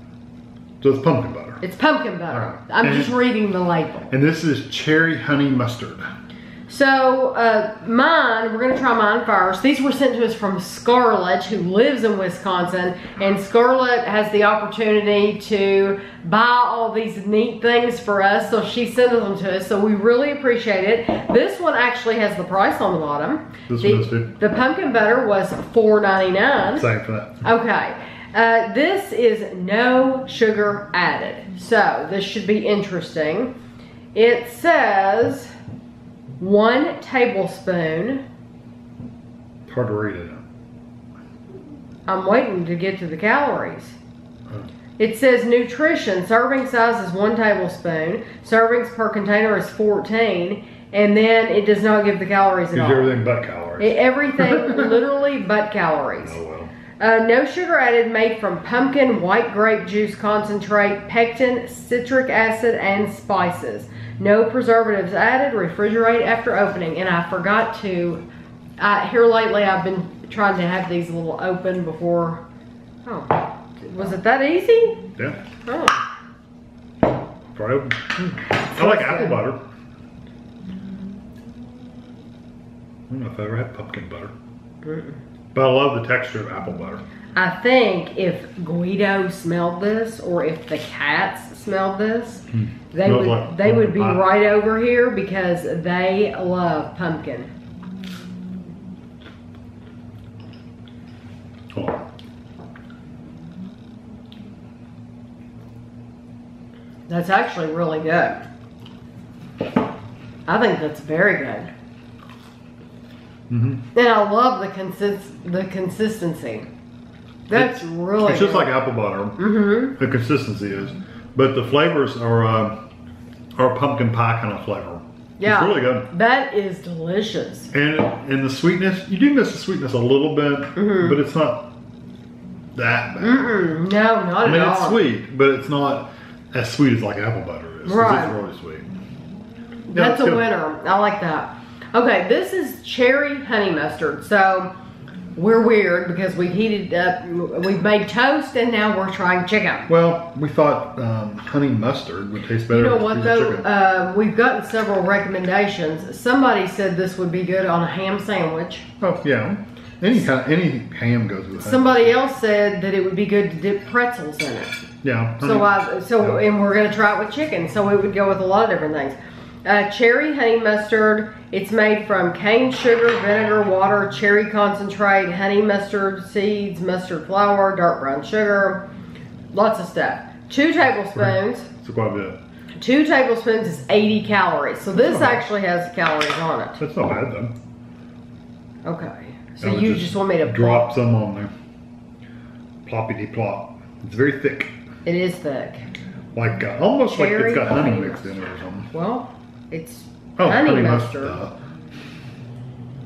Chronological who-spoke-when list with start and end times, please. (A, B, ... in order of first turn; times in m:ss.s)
0:00.8-0:01.6 A
0:01.6-0:04.1 B
0:02.3-0:03.2 A
0:04.1-0:06.1 A
0:06.7-0:26.9 B
0:23.7-0:24.4 A
0:26.7-0:27.4 A
0:27.4-0:33.5 B
0:34.2-0:35.5 B
0:36.4-0:38.2 B
0:39.7-0:40.4 A
0:42.1-0:44.0 B
0:45.0-0:53.2 B
0:52.7-0:55.0 A
0:53.8-0:56.4 B
0:56.2-0:56.7 A
0:57.0-1:08.2 B
1:08.8-1:12.4 B
1:13.0-1:15.1 B
1:15.7-1:16.0 B
1:17.5-1:19.6 A
1:18.7-1:19.4 B
1:23.1-1:24.3 A
1:24.8-1:25.2 B
1:25.5-1:27.0 A
1:27.4-1:37.5 B
1:32.5-1:34.3 A
1:41.7-1:42.0 A
1:47.1-1:48.4 B
1:50.5-1:51.7 B
1:53.5-1:53.8 A
1:53.9-1:56.7 B
1:57.5-1:58.7 B
1:57.5-1:59.4 A
1:59.4-2:00.0 B
1:59.9-2:02.8 A
2:03.6-2:06.1 A
2:05.4-2:07.7 B
2:07.7-2:11.7 A
2:10.8-2:11.2 B
2:12.8-2:13.5 A
2:13.2-2:15.0 B
2:14.4-2:18.9 A
2:17.8-2:18.4 B
2:19.9-2:24.7 B
2:19.9-2:20.4 A
2:25.4-2:29.9 B
2:29.9-2:33.7 A
2:32.7-2:38.9 B
2:39.0-2:42.2 A
2:41.6-2:44.9 B
2:45.0-2:46.4 A
2:45.4-2:58.9 B
2:59.5-3:01.7 B
3:01.2-3:02.4 A
3:02.8-3:06.8 B
3:05.0-3:05.4 A
3:06.8-3:07.5 A
3:08.8-3:10.9 B
3:09.6-3:11.5 A
3:12.8-3:14.7 A
3:15.0-3:15.9 B
3:16.4-3:18.9 A
3:17.1-3:21.4 B
3:20.4-3:21.6 A